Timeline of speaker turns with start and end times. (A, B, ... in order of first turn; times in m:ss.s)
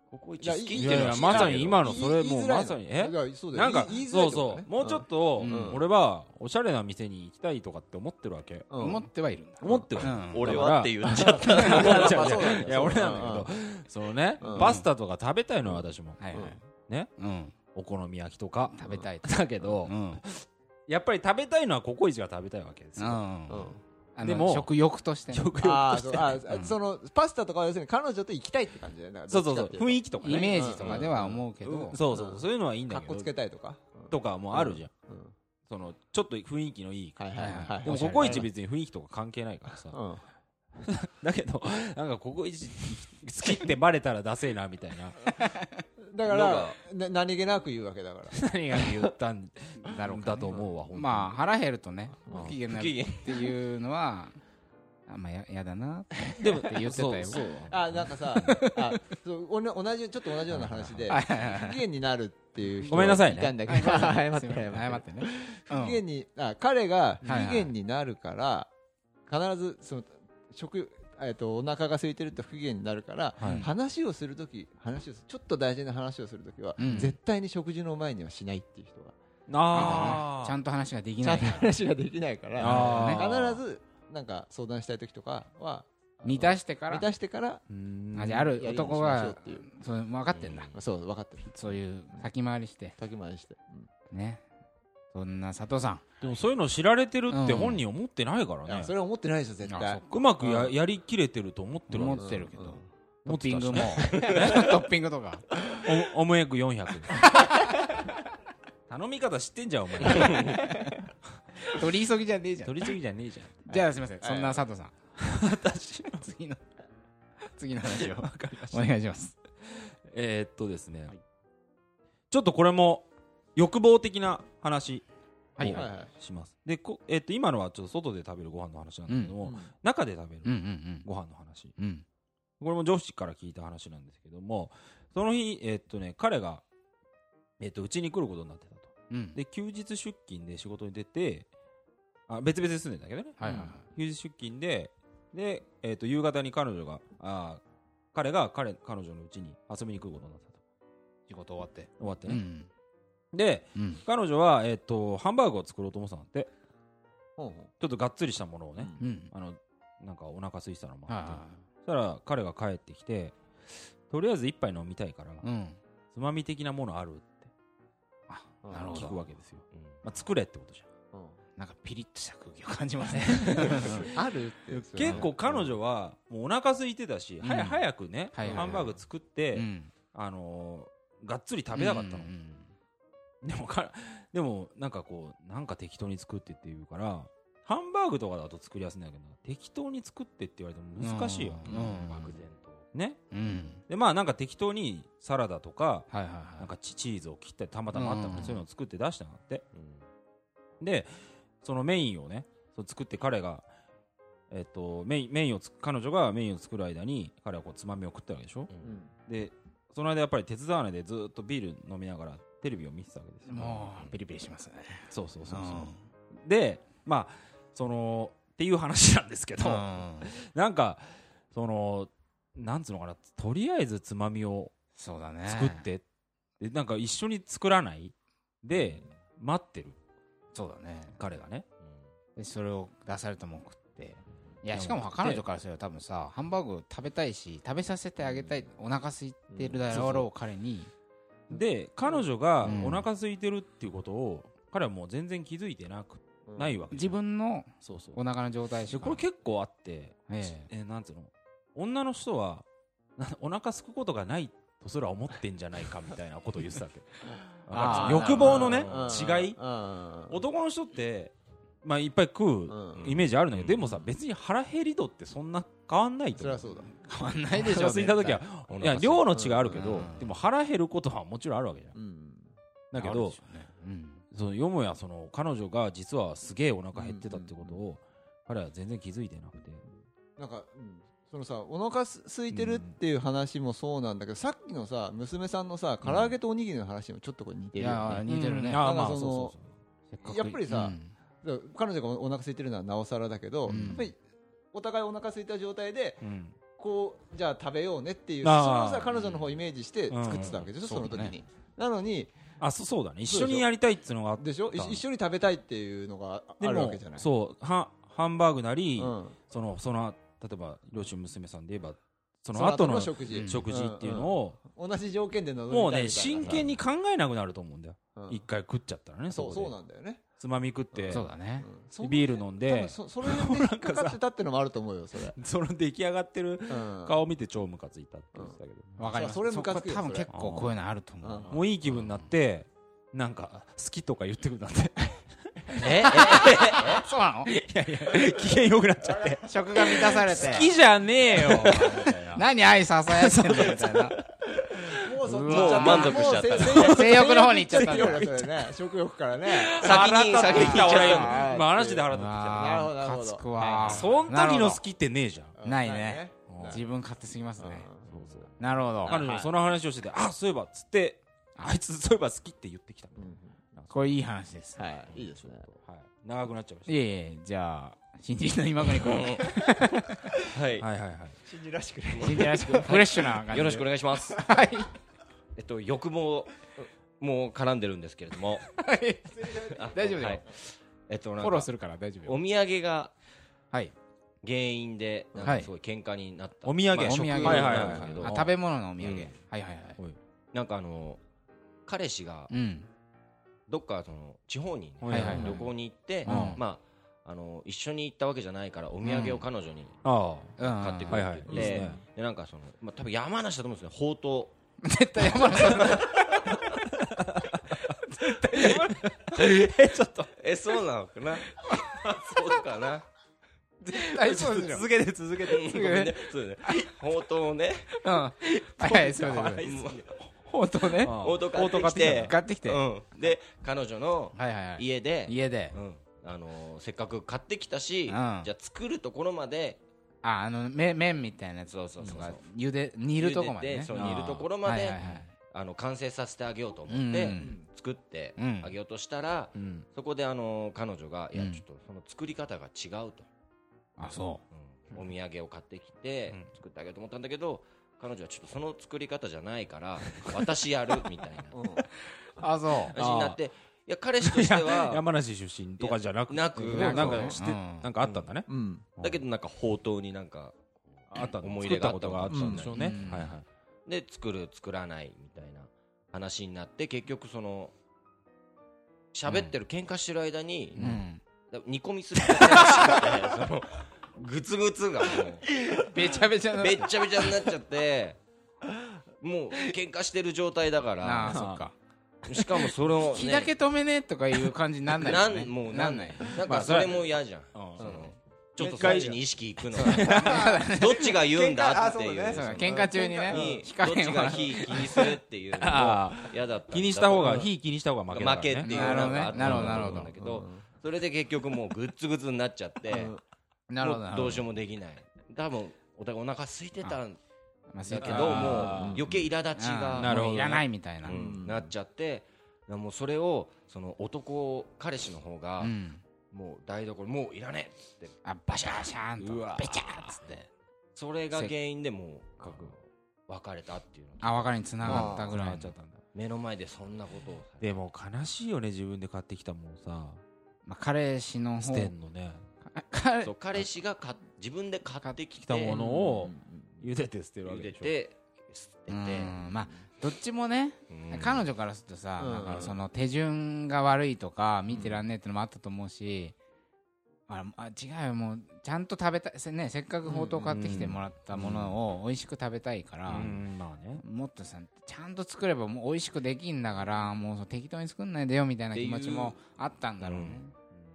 0:00.1-0:02.0 A
0:00.4-0:05.8 B
0:00.7-0:08.7 C
0:05.4-0:05.8 D
0:08.7-0:09.1 B
0:08.8-0:10.7 D
0:09.6-0:17.1 C
0:09.6-0:09.9 B
0:10.2-0:13.3 A
0:11.1-0:13.5 B
0:11.4-0:11.9 D
0:14.4-0:14.8 B
0:14.5-0:14.8 D
0:15.6-0:16.6 B
0:16.2-0:16.6 D
0:17.2-0:17.5 D
0:17.7-0:23.2 C
0:18.7-0:20.2 D
0:23.0-0:25.5 D
0:23.5-0:23.8 B
0:24.2-0:24.7 C
0:25.3-0:26.5 C
0:25.6-0:35.3 B
0:29.3-0:31.1 C
0:30.2-0:32.0 D
0:31.8-0:33.3 C
0:34.1-0:34.9 C
0:35.7-0:40.0 C
0:37.2-0:38.5 B
0:37.3-0:38.5 D
0:39.9-0:40.2 B
0:40.8-0:45.2 C
0:45.4-0:45.8 D
0:46.0-0:49.1 B
0:46.2-0:46.8 A
0:48.3-0:51.4 C
0:49.8-0:54.4 D
0:52.3-0:52.6 C
0:52.4-0:53.5 A
0:55.1-0:57.5 D
0:56.4-0:58.6 C
0:57.6-1:08.7 B
0:58.3-0:59.0 D
1:00.6-1:01.8 D
1:02.8-1:06.0 D
1:02.9-1:03.6 C
1:07.2-1:07.5 C
1:07.2-1:07.7 D
1:09.3-1:19.2 B
1:13.4-1:13.7 C
1:13.4-1:13.7 D
1:16.8-1:17.2 D
1:16.8-1:17.1 C
1:19.5-1:20.6 C
1:19.7-1:20.2 B
1:19.7-1:21.7 D
1:21.2-1:27.6 B
1:22.6-1:23.6 C
1:22.6-1:23.3 D
1:26.2-1:27.1 D
1:27.7-1:28.7 C
1:28.1-1:30.7 D
1:28.5-1:29.6 B
1:30.7-1:32.3 B
1:31.5-1:32.9 D
1:33.0-1:33.9 B
1:34.1-1:34.4 D
1:35.1-1:36.0 D
1:36.2-1:38.9 C
1:37.3-1:37.8 D
1:38.6-1:40.8 B
1:39.6-1:40.0 D
1:40.0-1:42.5 C
1:41.9-1:45.4 D
1:42.1-1:42.8 B
1:43.2-1:44.8 C
1:44.1-1:44.4 A
1:45.8-1:47.3 C
1:47.3-1:48.0 D
1:48.9-1:50.6 C
1:50.1-1:50.6 A
1:50.1-1:50.9 D
1:51.6-1:53.0 D
1:52.6-1:53.9 C
1:53.6-1:54.9 D
1:54.2-1:54.6 B
1:55.2-1:56.3 C
1:56.2-1:56.6 D
1:57.5-1:59.4 D
1:57.8-1:58.9 C
1:59.8-2:01.1 C
2:02.3-2:05.0 C
2:05.6-2:05.8 D
2:05.6-2:11.7 C
2:05.7-2:06.1 B
2:09.1-2:09.4 D
2:09.4-2:09.7 B
2:10.4-2:11.1 D
2:11.8-2:12.0 D
2:12.6-2:16.6 C
2:17.6-2:21.5 C
2:19.1-2:19.4 D
2:22.3-2:27.6 C
2:23.4-2:23.8 D
2:23.4-2:23.7 B
2:28.1-2:30.6 C
2:31.3-2:32.7 D
2:32.0-2:32.4 C
2:33.3-2:36.5 C
2:33.7-2:34.0 D
2:37.4-2:37.7 B
2:37.8-2:45.4 C
2:39.0-2:39.3 D
2:41.1-2:41.6 D
2:45.4-2:45.8 D
2:46.1-2:47.5 C
2:48.3-2:49.3 D
2:48.6-2:49.1 B
2:48.8-2:50.9 C
2:49.7-2:50.0 A
2:51.1-2:51.4 B
2:51.6-2:54.1 D
2:53.2-2:54.0 C
2:53.5-2:55.7 B
2:54.7-3:02.3 C
2:57.4-2:58.8 D
2:58.4-2:58.9 B
2:59.5-2:59.9 D
3:01.7-3:02.7 D
3:03.4-3:12.4 C
3:11.0-3:12.4 D
3:11.6-3:12.8 A
3:12.9-3:13.3 C
3:13.3-3:13.8 D
3:13.8-3:19.6 C
3:16.1-3:16.7 D
3:17.9-3:18.6 D
3:19.7-3:20.0 A
3:20.8-3:21.1 C
3:21.6-3:23.7 C
3:24.5-3:28.7 C
3:28.8-3:29.1 B
3:29.3-3:34.2 C
3:33.5-3:36.0 D
3:35.1-3:44.7 C
3:39.6-3:40.3 D
3:45.0-3:45.9 D
3:45.4-3:46.0 C
3:46.6-3:50.0 C
3:50.5-3:51.2 D
3:51.2-3:51.6 C
3:52.4-4:00.9 D
3:54.7-3:55.4 C
3:58.2-3:58.7 B
3:59.5-3:59.8 B
3:59.9-4:00.3 C
4:01.5-4:07.2 C
4:02.6-4:03.0 D
4:06.5-4:06.8 B
4:06.9-4:09.2 D
4:07.8-4:08.2 C
4:08.9-4:12.6 C
4:10.3-4:10.7 D
4:13.2-4:19.6 C
4:17.7-4:20.4 B
4:17.7-4:18.7 D
4:18.4-4:19.3 A
4:20.3-4:26.7 C
4:22.7-4:23.1 B
4:22.9-4:24.0 A
4:26.4-4:26.9 B
4:26.9-4:28.4 D
4:27.5-4:31.9 C
4:28.7-4:29.2 A
4:29.3-4:30.1 B
4:29.7-4:30.3 D
4:31.9-4:32.5 B
4:32.9-4:33.4 C
4:32.9-4:34.2 D
4:34.3-4:39.8 C
4:36.9-4:37.8 B
4:39.8-4:48.2 B
4:42.5-4:43.0 C
4:46.0-4:46.3 C
4:47.8-4:48.9 D
4:48.3-4:49.7 C
4:48.8-4:49.5 B
4:50.1-4:51.1 D
4:50.2-4:54.2 B
4:53.7-4:54.1 D
4:53.7-4:54.0 C
4:54.7-4:56.2 B
4:56.2-4:56.6 C
4:56.8-5:02.3 B
4:58.4-4:59.4 C
5:00.1-5:00.7 C
5:00.8-5:01.4 D
5:02.6-5:05.0 C
5:03.3-5:03.7 B
5:04.4-5:07.3 B
5:06.6-5:14.6 C
5:09.0-5:09.4 B
5:12.5-5:16.7 B
5:13.3-5:13.6 D
5:15.7-5:19.8 C
5:16.4-5:16.7 A
5:18.2-5:18.4 B
5:19.3-5:20.2 B
5:20.4-5:21.3 C
5:20.9-5:25.4 B
5:21.1-5:21.7 D
5:22.0-5:24.2 C
5:25.4-5:29.0 C
5:26.7-5:27.2 B
5:29.0-5:31.6 D
5:29.1-5:30.3 B
5:30.3-5:30.7 C
5:31.2-5:31.5 B
5:31.5-5:42.4 C
5:35.8-5:37.0 A
5:36.8-5:37.5 D
5:39.2-5:39.9 B
5:39.4-5:40.7 D
5:41.4-5:44.2 D
5:43.1-5:44.3 C
5:44.9-5:54.2 B
5:45.2-5:48.3 D
5:45.4-5:47.0 A
5:46.7-5:48.7 C
5:49.4-5:52.9 C
5:49.8-5:51.5 A
5:52.1-5:54.8 D
5:53.8-5:55.5 C
5:55.6-5:56.8 B
5:55.6-5:57.9 D
5:56.5-5:56.8 C
5:57.6-5:58.5 B
5:58.1-6:03.9 C
5:58.6-5:59.4 D
5:59.0-5:59.4 A
6:03.2-6:03.6 B
6:03.9-6:04.8 D
6:04.8-6:05.7 B
6:05.1-6:06.9 C
6:06.9-6:10.1 D
6:09.0-6:09.5 A
6:10.5-6:10.9 A
6:10.8-6:11.4 C
6:11.4-6:13.0 B
6:12.1-6:14.5 A
6:12.2-6:14.9 D
6:15.6-6:18.7 A
6:18.7-6:20.4 D
6:19.3-6:20.2 B
6:19.7-6:21.7 A
6:21.4-6:22.4 D
6:22.2-6:23.1 A
6:24.4-6:28.4 A
6:25.4-6:25.7 D
6:26.6-6:28.6 C
6:26.9-6:30.0 D
6:27.4-6:28.2 B
6:29.0-6:29.3 A
6:30.5-6:31.2 A
6:31.8-6:32.5 A
6:32.5-6:32.9 D
6:33.7-6:40.0 A
6:35.0-6:35.7 C
6:35.1-6:35.6 D
6:36.2-6:36.6 D
6:36.2-6:36.6 C
6:39.0-6:39.4 D
6:40.0-6:42.0 C
6:40.6-6:41.8 D
6:40.6-6:44.5 A
6:41.5-6:41.8 B
6:44.8-6:46.4 D
6:45.2-6:46.8 A
6:47.0-6:47.8 C
6:48.1-6:49.1 D
6:48.4-6:50.4 C
6:49.3-6:53.0 A
6:53.8-6:55.8 C
6:53.9-6:54.8 D
6:55.4-6:58.0 A
6:55.5-6:56.9 D
6:58.0-6:59.7 D
6:58.8-7:00.3 C
6:59.6-7:00.1 A
7:00.4-7:02.8 D
7:01.0-7:02.3 C
7:01.0-7:09.8 A
7:04.3-7:05.8 D
7:08.1-7:08.5 D
7:10.2-7:15.3 D
7:11.7-7:12.4 A
7:13.2-7:23.3 A
7:13.9-7:14.4 C
7:16.9-7:17.6 D
7:17.4-7:17.7 B
7:18.4-7:18.7 D
7:19.5-7:19.8 C
7:21.3-7:21.6 D
7:24.0-7:24.4 D
7:24.5-7:31.6 A
7:31.5-7:31.8 B
7:32.4-7:32.9 D
7:32.9-7:35.0 A
7:32.9-7:33.4 C
7:34.2-7:39.2 C
7:35.8-7:37.4 A
7:36.7-7:37.4 B
7:36.7-7:37.9 D
7:38.5-7:38.9 B
7:39.0-7:43.1 A
7:41.1-7:43.4 C
7:42.3-7:42.7 B
7:42.7-7:43.4 D
7:43.8-7:47.7 A
7:49.1-7:50.9 A
7:50.8-7:51.2 D
7:50.8-7:51.0 C
7:51.5-7:55.4 A
7:52.3-7:52.9 D
7:55.6-7:57.2 D
7:56.5-7:58.2 A
7:59.2-8:01.4 A
8:01.0-8:01.7 D
8:01.2-8:01.6 C
8:02.2-8:03.5 A
8:03.1-8:06.8 D
8:04.9-8:17.5 A
8:06.4-8:09.2 C
8:07.8-8:09.2 B
8:09.7-8:10.5 C
8:09.8-8:13.6 B
8:10.0-8:11.2 D
8:12.3-8:15.0 D
8:15.6-8:19.8 C
8:17.2-8:17.5 B
8:18.1-8:23.2 A
8:18.6-8:20.1 D
8:19.3-8:20.6 B
8:22.9-8:23.2 B
8:23.7-8:24.4 D
8:23.8-8:27.2 A
8:27.7-8:29.0 D
8:27.8-8:35.7 A
8:28.0-8:29.2 B
8:28.1-8:29.2 C
8:29.5-8:31.2 D
8:29.9-8:30.6 C
8:31.1-8:31.7 B
8:35.6-8:36.0 D
8:36.3-8:38.1 A
8:38.2-8:40.5 D
8:39.2-8:40.2 C
8:40.9-8:45.1 A
8:42.4-8:42.7 C
8:44.2-8:45.7 D
8:44.8-8:46.0 C
8:44.8-8:45.4 B
8:46.1-8:47.8 A
8:47.6-8:50.2 C
8:50.6-8:51.9 D
8:51.6-8:52.4 C
8:52.6-8:53.3 D
8:53.2-8:55.8 A
8:55.4-8:57.9 C
8:55.7-8:56.8 B
8:57.4-8:59.3 A
8:58.9-9:06.3 D
9:00.9-9:01.4 A
9:02.2-9:02.8 B
9:07.3-9:13.3 D
9:10.0-9:10.8 B
9:10.5-9:11.8 C
9:13.1-9:14.0 C
9:14.0-9:20.5 D
9:18.7-9:19.4 A
9:20.0-9:20.4 A